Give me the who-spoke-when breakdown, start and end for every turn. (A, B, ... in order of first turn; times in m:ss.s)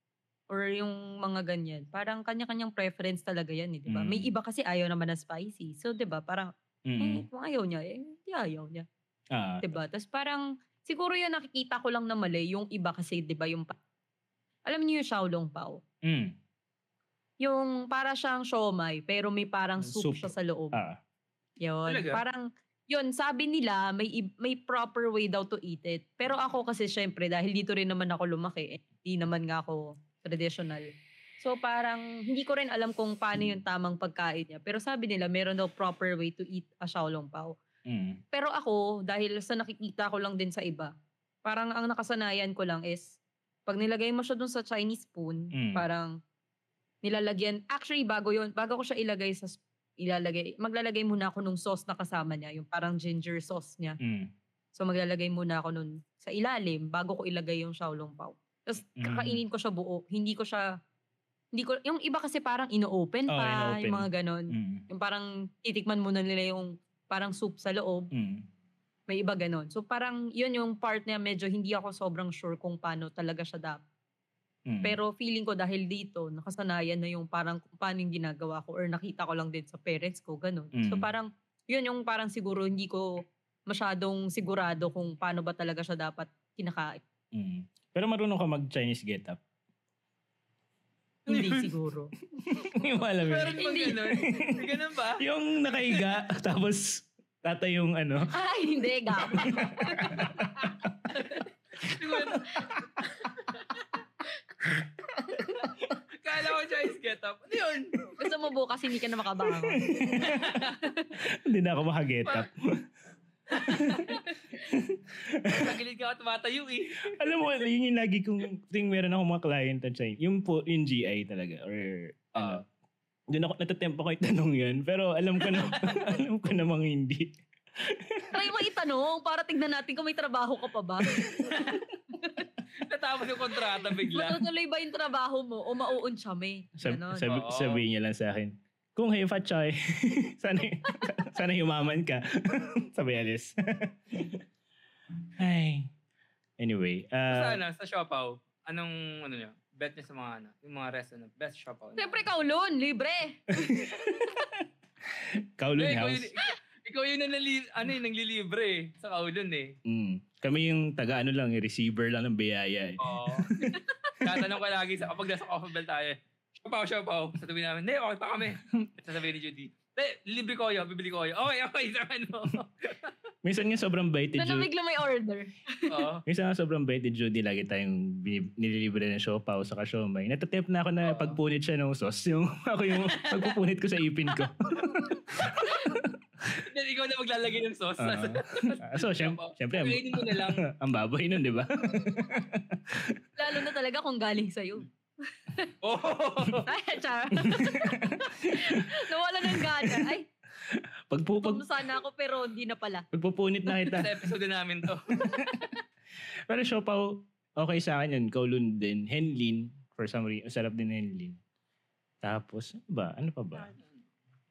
0:00.5-0:08.9 A
0:03.9-0:04.3 B
0:06.9-0:07.2 B
0:09.3-0:09.8 B
0:09.6-0:13.8 A
0:14.6-0:15.8 A
0:16.0-0:16.4 B
0:17.4-0:20.8 A
0:19.8-0:21.0 B
0:21.6-0:30.9 A
0:21.9-0:22.2 C
0:31.4-0:37.6 A
0:37.9-0:38.2 B
0:38.3-0:40.9 A
0:41.4-0:46.2 A
0:45.5-0:45.9 B
0:47.0-0:54.0 A
0:54.0-0:54.3 B
0:54.8-1:00.7 A
0:59.0-0:59.4 B
1:01.5-1:08.1 A
1:03.3-1:04.8 B
1:08.1-1:08.5 B
1:09.1-1:13.8 A
1:14.7-1:15.0 B
1:14.8-1:27.0 A
1:20.8-1:21.1 B
1:27.3-1:29.4 B
1:31.3-1:32.1 A
1:31.3-1:31.7 C
1:32.4-1:38.3 B
1:33.3-1:35.2 C
1:33.5-1:34.2 A
1:38.3-1:40.7 A
1:39.3-1:41.2 B
1:41.2-1:43.8 C
1:41.8-1:43.0 B
1:42.4-1:42.7 A
1:45.2-1:45.7 A
1:46.2-1:48.1 C
1:48.2-1:51.1 A
1:49.5-1:52.9 B
1:50.3-1:50.8 C
1:53.5-1:54.4 C
1:53.6-1:55.8 B
1:55.5-1:57.1 C
1:57.1-2:02.6 B
2:02.4-2:02.6 C
2:03.3-2:08.5 B
2:05.5-2:06.1 C
2:08.3-2:12.5 A
2:11.3-2:11.8 C
2:12.8-2:14.4 C
2:14.0-2:17.3 A
2:16.8-2:24.4 B
2:17.2-2:17.8 C
2:25.4-2:25.9 B
2:26.6-2:27.6 B
2:27.3-2:32.2 C
2:32.0-2:34.2 A
2:33.6-2:34.5 B
2:35.1-2:36.3 B
2:35.8-2:39.8 C
2:39.9-2:44.5 B
2:43.0-2:53.1 C
2:48.6-2:48.9 B
2:53.4-2:54.7 B
2:54.4-2:56.1 A
2:55.9-2:56.2 C
2:56.3-3:06.6 B
3:01.0-3:01.4 C
3:03.0-3:03.6 C
3:04.7-3:05.9 A
3:06.7-3:10.6 C
3:08.0-3:13.2 B
3:13.4-3:14.9 A
3:15.5-3:15.7 A
3:15.8-3:16.7 C
3:16.7-3:20.3 A
3:17.4-3:18.9 B
3:19.5-3:21.6 B
3:21.4-3:23.1 A
3:23.1-3:24.3 B
3:23.9-3:25.2 C
3:25.2-3:25.6 B
3:25.3-3:25.7 A
3:26.5-3:31.4 B
3:32.2-3:33.7 B
3:33.6-3:33.9 C